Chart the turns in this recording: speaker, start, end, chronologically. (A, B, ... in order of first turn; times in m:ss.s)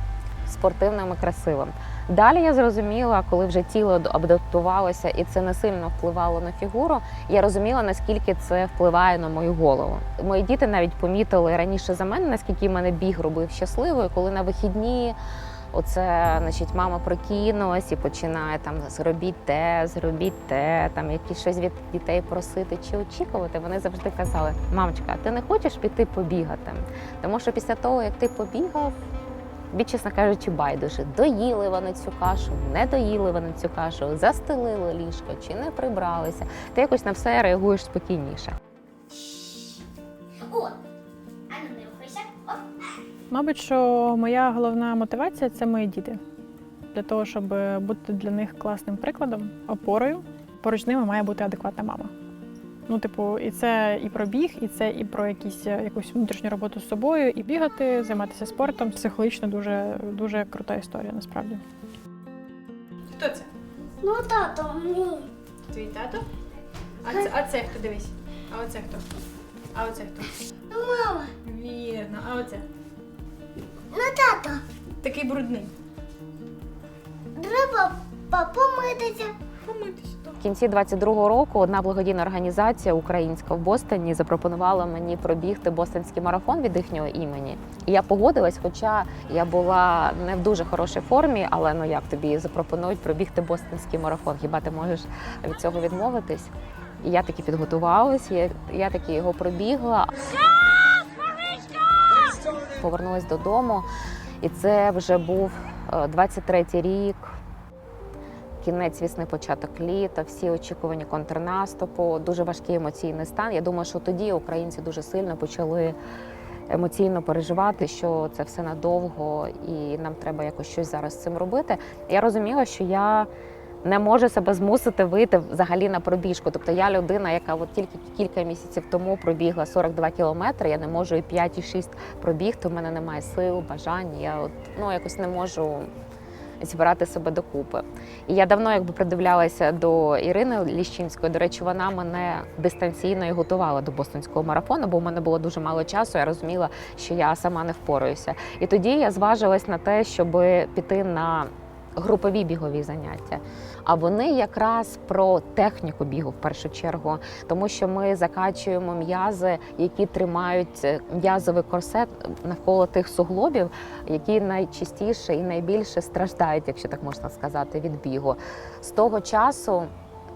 0:00.4-0:15.2 A
0:15.7-0:28.9 A
0:29.7-0:38.6 A
0:39.1-0:39.8 B
0:40.4-0:40.8 B
0:41.5-0:42.6 B
0:43.3-0:46.2 C
0:46.9-0:52.1 C
0:52.9-1:01.6 C
1:03.1-1:03.5 C
1:04.0-1:05.3 B
1:05.7-1:06.2 C
1:07.0-1:09.1 C
1:09.7-1:10.4 C
1:10.7-1:11.3 B
1:11.4-1:12.6 C
1:13.9-1:14.6 B
1:15.0-1:15.7 C
1:17.4-1:19.3 B
1:19.6-1:20.4 C
1:20.4-1:40.1 A
1:42.7-1:43.9 A
1:44.4-1:47.3 A
1:48.6-1:56.0 A
1:56.7-2:03.3 A
2:03.8-2:15.9 A
2:16.6-2:49.9 A